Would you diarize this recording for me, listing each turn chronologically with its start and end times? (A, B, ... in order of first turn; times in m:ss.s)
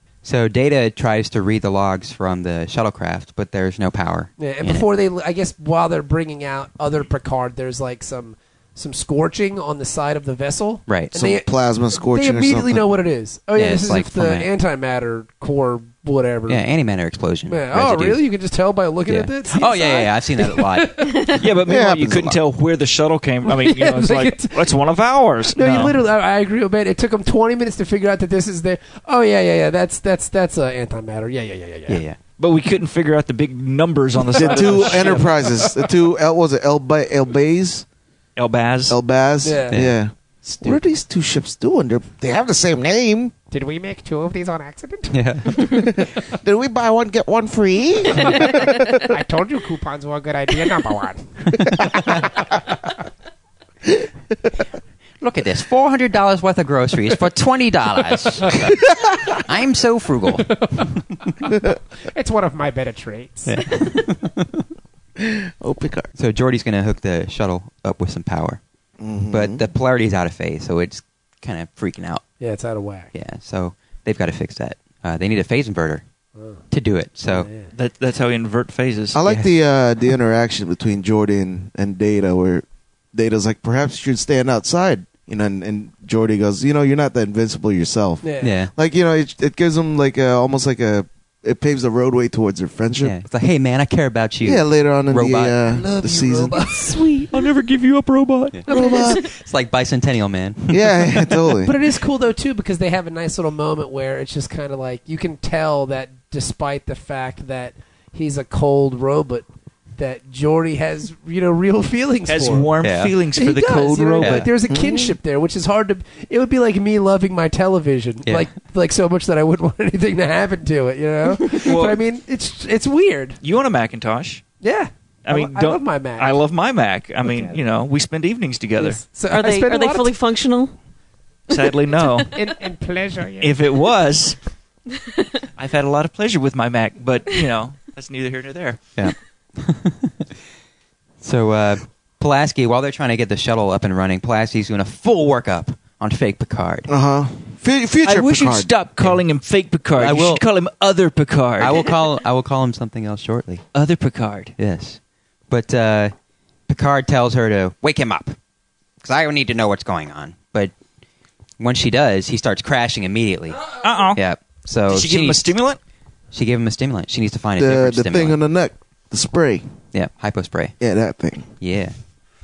0:00.2-0:04.8 A
0:04.4-0:16.6 B
0:10.9-0:11.1 A
0:11.1-0:12.9 C
0:13.6-0:14.5 A
0:16.5-0:18.2 A
0:17.5-0:21.3 B
0:19.1-0:21.6 A
0:21.3-0:26.0 D
0:21.6-0:22.4 C
0:23.4-0:24.7 B
0:25.5-0:32.0 B
0:31.9-0:32.2 A
0:32.4-0:35.3 D
0:34.3-0:35.8 B
0:34.3-0:37.8 C
0:38.4-0:39.0 D
0:38.9-0:43.3 C
0:39.4-0:39.8 B
0:39.7-0:40.0 A
0:43.5-0:45.1 B
0:45.1-0:46.0 A
0:45.6-0:49.1 C
0:48.1-0:48.5 B
0:49.1-0:51.3 B
0:51.8-0:52.0 C
0:51.9-0:52.5 B
0:55.2-1:00.8 A
1:00.5-1:01.5 B
1:02.1-1:03.6 B
1:03.4-1:04.6 A
1:05.2-1:06.1 C
1:06.1-1:08.6 A
1:09.0-1:09.6 C
1:09.3-1:12.2 A
1:12.4-1:13.1 B
1:13.1-1:16.0 A
1:16.4-1:16.6 B
1:16.7-1:17.5 A
1:17.3-1:17.7 B
1:17.7-1:19.2 D
1:19.1-1:33.1 C
1:19.2-1:19.5 A
1:28.2-1:28.5 B
1:28.4-1:28.7 A
1:33.0-1:35.6 A
1:34.4-1:36.9 C
1:35.7-1:37.3 B
1:37.3-1:38.6 D
1:38.7-1:39.1 B
1:38.7-1:39.3 C
1:39.2-1:41.5 A
1:40.7-1:41.7 C
1:41.6-1:49.4 B
1:50.0-1:52.7 B
1:52.3-1:54.5 D
1:52.8-1:53.1 A
1:53.3-2:03.4 B
1:54.2-1:54.5 A
1:54.7-1:55.2 C
2:01.6-2:02.0 D
2:03.4-2:04.4 D
2:04.6-2:06.4 B
2:05.2-2:09.0 D
2:07.2-2:07.6 B
2:08.8-2:10.1 B
2:09.3-2:10.7 E
2:11.5-2:12.3 D
2:11.5-2:12.3 E
2:12.3-2:13.6 B
2:13.4-2:14.4 D
2:15.6-2:18.8 D
2:19.0-2:20.4 A
2:21.2-2:26.9 A
2:26.9-2:28.7 C
2:28.0-2:32.0 D
2:30.0-2:30.4 A
2:31.6-2:33.6 A
2:33.7-2:34.5 D
2:34.6-2:36.1 A
2:36.7-2:38.4 A
2:39.0-2:40.7 A
2:41.6-2:45.4 A
2:43.8-2:44.2 D
2:44.9-2:45.8 D
2:46.3-2:48.4 A
2:47.6-2:49.6 C
2:49.9-2:50.7 A
2:50.8-2:51.5 C
2:51.6-2:51.9 A